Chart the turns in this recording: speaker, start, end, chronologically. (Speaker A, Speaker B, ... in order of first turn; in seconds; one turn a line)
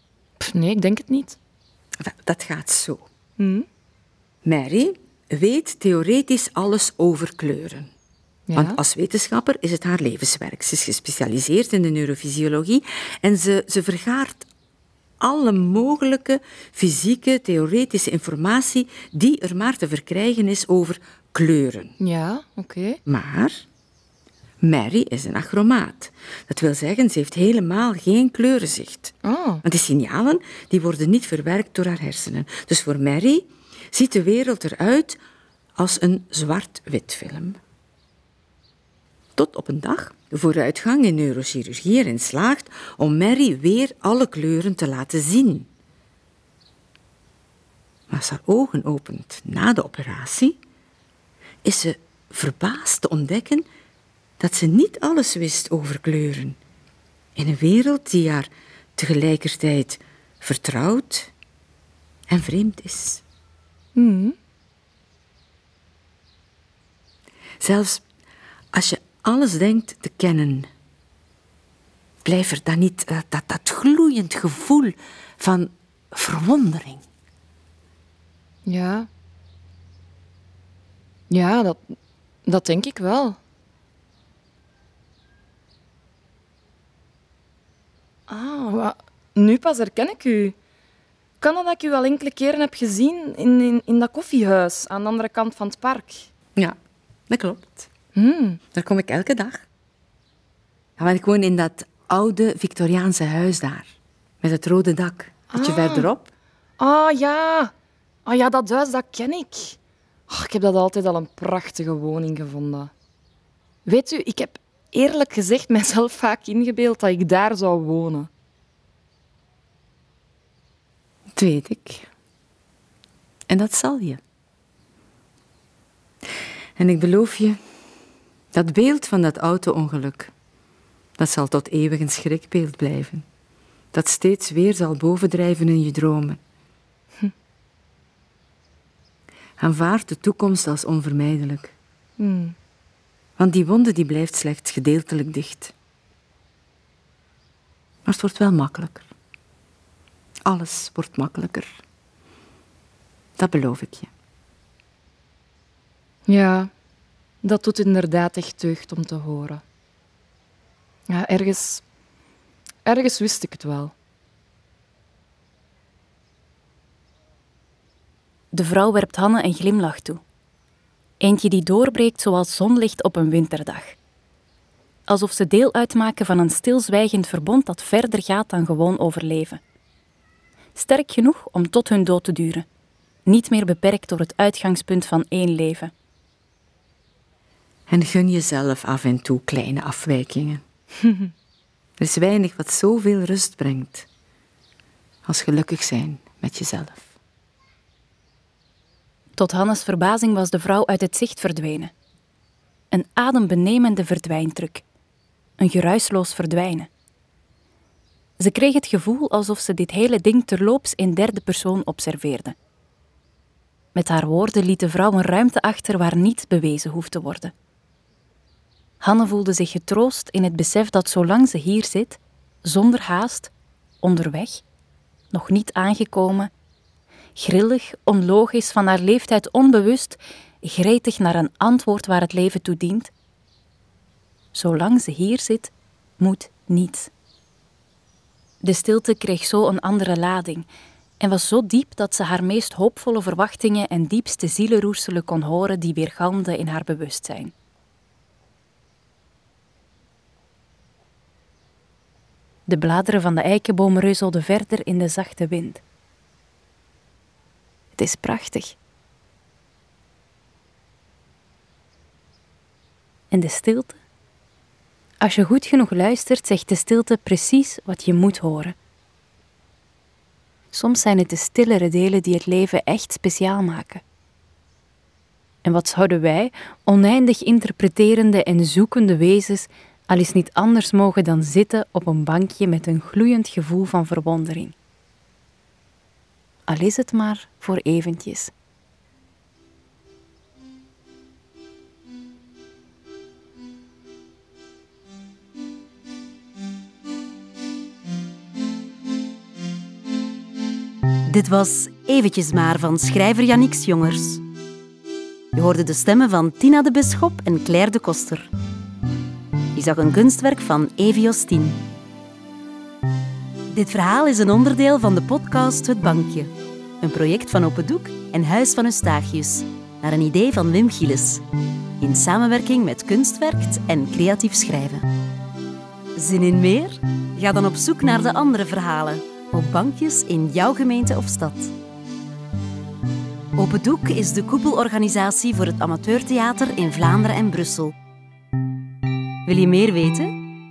Speaker A: 0.4-1.4
Speaker B: 2.0-3.0
Speaker A: 3.4-3.7
Speaker B: 4.4-7.9
Speaker A: 8.5-8.8
Speaker B: 8.5-14.5
Speaker B: 15.2-21.9
Speaker A: 22.0-23.0
Speaker B: 23.1-23.6
Speaker B: 24.6-35.2
Speaker A: 29.2-29.6
Speaker B: 35.8-37.6
Speaker B: 39.4-45.7
Speaker B: 48.1-50.6
Speaker B: 51.6-53.6
Speaker B: 54.4-56.6
Speaker B: 57.4-61.3
Speaker B: 62.3-63.2
Speaker A: 63.9-64.3
Speaker B: 67.6-68.0
Speaker B: 68.7-70.7
Speaker B: 72.2-77.0
Speaker A: 78.7-79.1
Speaker A: 81.3-83.4
Speaker A: 88.3-90.5
Speaker A: 91.4-96.3
Speaker B: 97.3-97.9
Speaker A: 98.1-98.6
Speaker B: 98.7-99.6
Speaker B: 101.0-106.3
Speaker A: 105.5-106.1
Speaker A: 106.8-107.7
Speaker A: 108.2-109.8
Speaker A: 110.3-112.9
Speaker A: 113.8-118.3
Speaker B: 121.3-122.1
Speaker B: 123.5-124.2
Speaker B: 126.8-127.6
Speaker B: 128.5-130.3
Speaker B: 131.2-133.2
Speaker B: 133.9-136.4
Speaker B: 139.6-141.7
Speaker A: 142.2-142.6
Speaker B: 143.4-145.7
Speaker B: 148.0-149.1
Speaker B: 150.4-151.7
Speaker B: 153.4-154.1
Speaker A: 156.2-156.7
Speaker A: 157.4-159.6
Speaker A: 161.1-161.8
Speaker A: 162.8-163.9
Speaker C: 168.5-170.2
Speaker C: 171.2-173.9
Speaker C: 175.1-179.6
Speaker C: 180.7-182.7
Speaker C: 183.2-185.9
Speaker B: 187.9-190.6
Speaker B: 192.0-194.1
Speaker B: 195.2-197.1
Speaker C: 199.3-201.9
Speaker C: 202.9-204.8
Speaker C: 205.6-206.9
Speaker C: 208.4-212.6
Speaker C: 213.9-217.5
Speaker C: 219.0-224.6
Speaker C: 225.3-226.5
Speaker C: 227.3-233.1
Speaker C: 234.5-237.1
Speaker C: 238.6-240.7
Speaker C: 241.2-247.5
Speaker C: 252.7-255.8
Speaker C: 257.9-258.8
Speaker C: 263.3-264.0
Speaker C: 265.2-268.8
Speaker C: 270.7-274.0
Speaker C: 275.6-284.7
Speaker C: 286.7-288.5
Speaker D: 301.2-304.4
Speaker D: 305.5-308.5
Speaker D: 309.7-311.8
Speaker D: 313.7-321.4
Speaker D: 322.0-325.1
Speaker D: 326.1-331.7
Speaker D: 333.6-337.9
Speaker D: 339.4-340.3